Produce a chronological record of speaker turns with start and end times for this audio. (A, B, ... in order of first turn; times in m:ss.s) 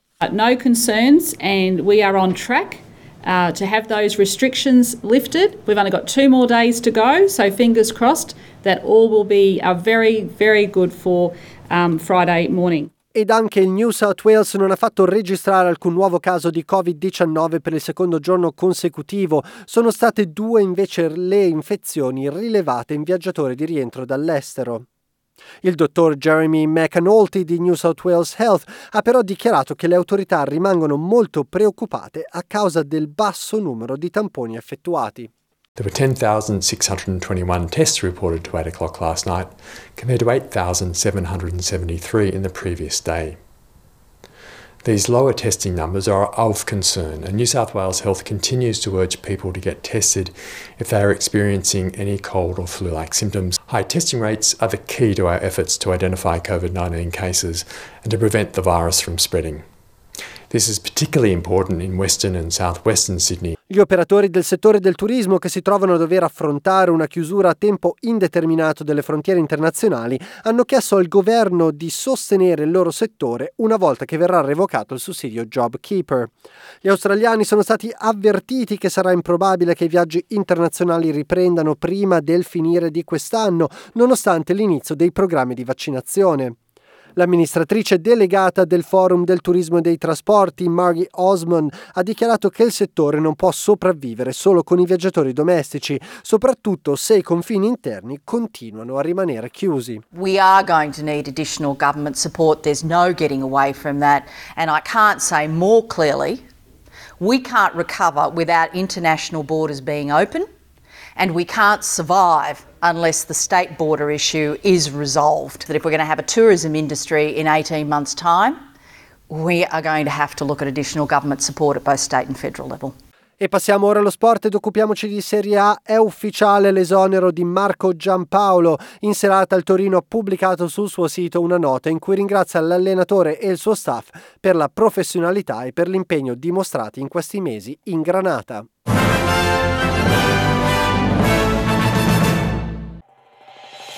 0:00.2-0:12.9 A
0:13.1-0:24.8 B
0:25.6-0:35.3 B
0:35.8-0:43.4 C
0:44.8-0:59.6 C
1:00.5-1:03.6 C
1:03.7-1:16.3 B
1:16.8-1:26.6 B
1:27.2-1:40.0 B
1:40.1-1:46.4 D
1:47.2-1:50.5 D
1:51.2-1:58.6 D
1:59.3-2:02.9 D
2:03.4-2:18.7 B